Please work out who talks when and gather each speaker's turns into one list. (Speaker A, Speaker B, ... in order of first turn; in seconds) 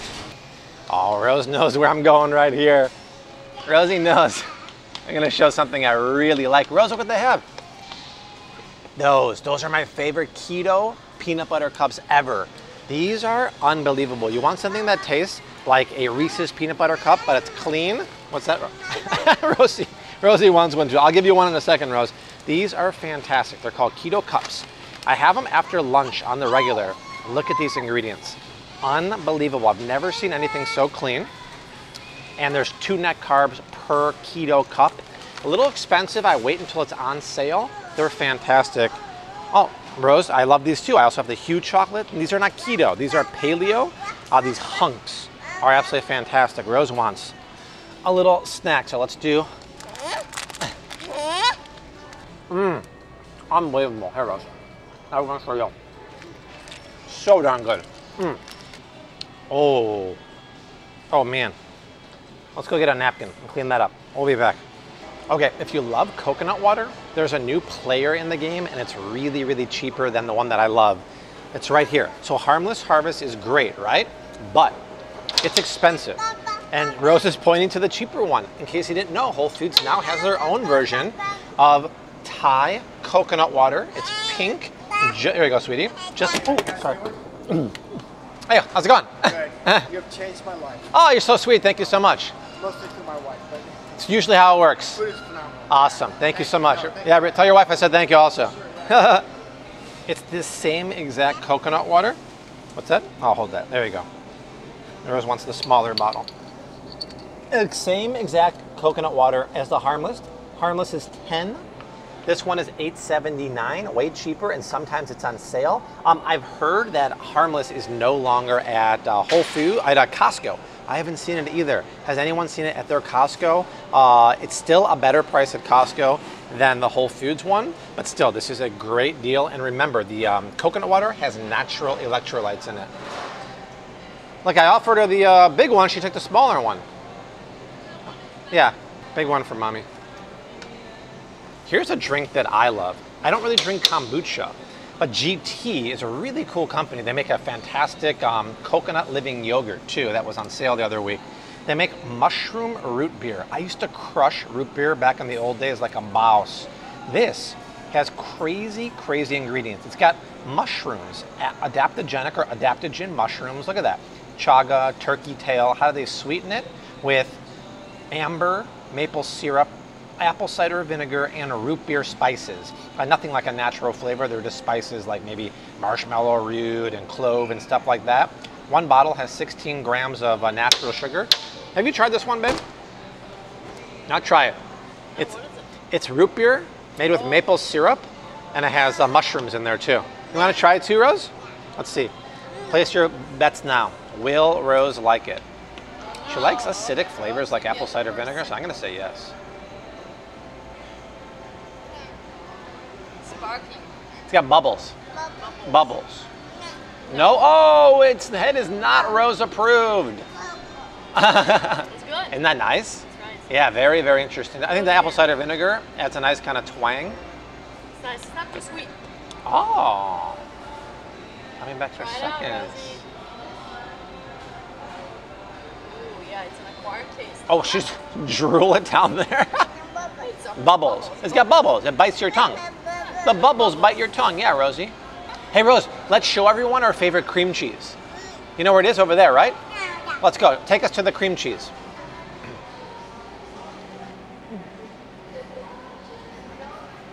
Speaker A: 0.9-2.9, 3.7-4.5, 5.0-7.4, 8.9-31.3, 32.4-38.9, 39.5-47.3, 48.0-49.5, 52.5-52.9, 53.5-54.5, 55.1-55.7, 57.1-58.4, 59.5-60.2, 61.1-61.5, 62.5-64.6, 65.3-74.8, 75.4-87.8, 88.5-89.9, 90.9-92.3, 94.0-95.1, 95.7-99.3, 100.1-102.2, 102.7-104.0, 105.0-106.3, 107.5-111.6, 112.2-132.9, 134.4-136.8, 138.5-139.8, 141.7-167.4, 168.1-182.6, 184.1-184.6, 185.9-192.1, 192.7-195.4, 196.3-199.3, 204.3-204.9, 205.6-206.2, 207.1-210.2, 211.1-217.2, 219.4-220.4, 221.6-223.0, 227.5-229.7, 230.6-232.6, 233.2-234.9, 235.5-238.0, 238.6-239.6, 240.2-241.7
Speaker B: 89.9-90.8, 92.6-93.7
Speaker C: 185.1-185.6, 196.1-198.5, 203.2-203.9, 205.3-205.6, 207.1-207.4, 211.9-212.4, 213.1-213.5, 214.7-215.2, 217.9-218.9, 222.0-223.0, 225.8-227.8, 230.0-231.7